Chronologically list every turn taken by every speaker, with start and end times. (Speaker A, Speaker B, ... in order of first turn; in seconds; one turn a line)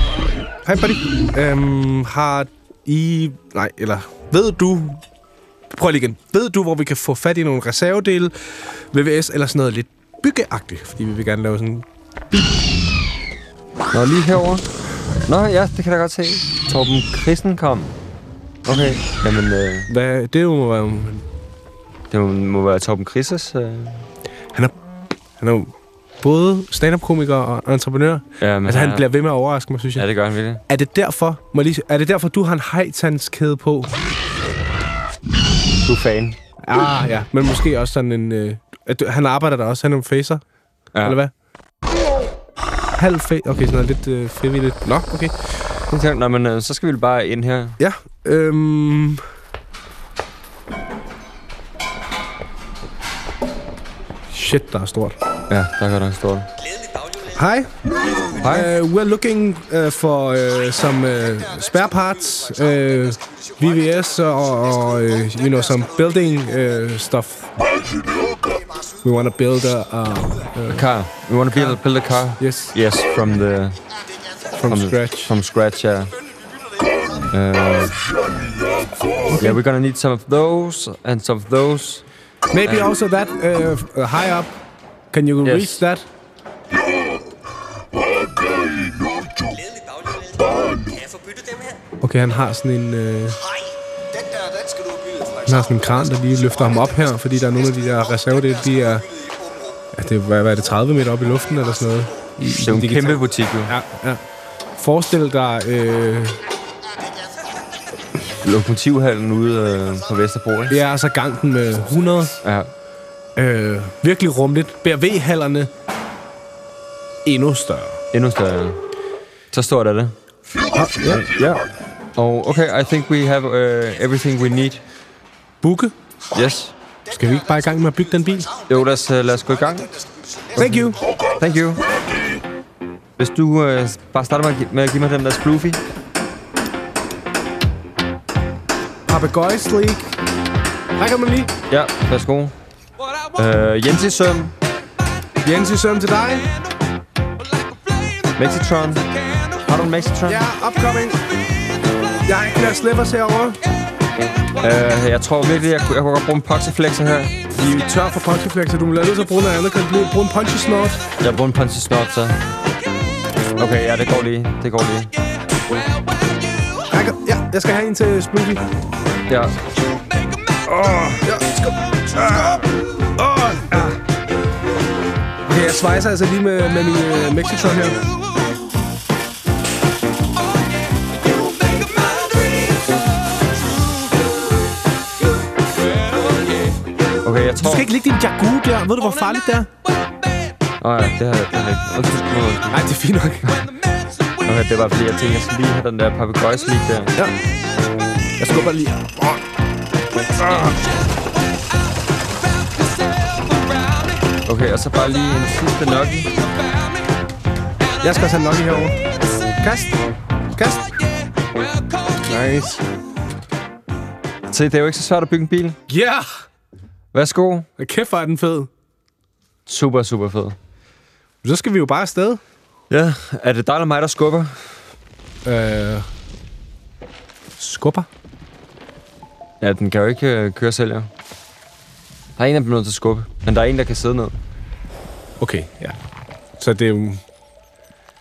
Speaker A: 0.6-5.0
Speaker A: 5.7-11.8
Speaker B: 13.9-14.7
Speaker B: 15.2-17.9
Speaker B: 18.6-19.9
Speaker A: 19.9-21.2
Speaker B: 22.1-24.1
Speaker A: 25.4-30.0
Speaker B: 28.4-29.1
Speaker B: 29.9-30.6
Speaker A: 30.7-34.0
Speaker B: 35.8-36.4
Speaker A: 36.6-40.4
Speaker A: 41.0-41.3
Speaker A: 43.0-45.3
Speaker B: 45.9-47.8
Speaker A: 47.8-49.2
Speaker A: 54.3-55.2
Speaker B: 55.5-56.5
Speaker A: 57.3-57.7
Speaker A: 58.4-67.5
Speaker B: 58.4-58.7
Speaker A: 69.0-70.9
Speaker B: 70.7-73.8
Speaker A: 71.5-71.8
Speaker A: 72.4-72.8
Speaker A: 74.5-75.3
Speaker B: 74.7-76.1
Speaker B: 77.3-77.9
Speaker C: 78.2-79.3
Speaker B: 79.4-82.0
Speaker A: 82.5-84.5
Speaker B: 82.6-82.9
Speaker A: 85.1-86.1
Speaker B: 85.4-85.8
Speaker C: 88.3-89.5
Speaker A: 92.0-93.4
Speaker A: 95.4-99.1
Speaker A: 99.9-104.2
Speaker B: 102.4-103.8
Speaker A: 104.8-106.4
Speaker B: 108.4-110.8
Speaker A: 110.7-112.3
Speaker B: 112.4-112.7
Speaker A: 113.3-115.7
Speaker A: 117.2-118.0
Speaker B: 118.1-118.8
Speaker B: 119.5-120.1
Speaker A: 120.7-121.3
Speaker B: 121.1-124.8
Speaker A: 125.6-125.9
Speaker B: 126.3-126.7
Speaker A: 127.1-128.5
Speaker B: 128.7-129.9
Speaker A: 130.6-131.0
Speaker B: 130.6-131.8
Speaker C: 131.1-131.4
Speaker B: 133.2-135.8
Speaker A: 139.1-140.2
Speaker A: 140.9-141.5
Speaker B: 141.7-142.5
Speaker B: 143.3-144.5
Speaker A: 145.4-146.5
Speaker B: 148.4-149.1
Speaker B: 149.6-150.4
Speaker A: 150.2-151.2
Speaker A: 152.2-153.6
Speaker B: 154.6-157.5
Speaker A: 157.5-161.0
Speaker B: 161.2-162.4
Speaker B: 163.6-165.1
Speaker A: 166.9-168.6
Speaker B: 169.3-169.5
Speaker B: 170.7-171.2
Speaker A: 171.2-173.9
Speaker B: 173.7-174.0
Speaker A: 175.4-178.0
Speaker B: 187.2-187.9
Speaker A: 187.6-189.7
Speaker B: 190.8-192.9
Speaker A: 192.7-193.7
Speaker B: 194.4-197.2
Speaker A: 198.4-199.4
Speaker A: 200.3-200.7
Speaker B: 200.4-200.7
Speaker B: 204.4-206.3
Speaker A: 208.0-210.9
Speaker A: 212.2-212.8
Speaker B: 214.5-215.8
Speaker A: 215.9-216.3
Speaker B: 217.1-217.7
Speaker A: 217.8-218.7
Speaker B: 219.7-220.6
Speaker A: 221.4-222.4
Speaker B: 222.9-224.8
Speaker A: 225.4-226.1
Speaker A: 227.6-228.1
Speaker B: 229.6-231.1
Speaker B: 232.4-234.4
Speaker A: 235.4-236.0
Speaker A: 236.6-237.2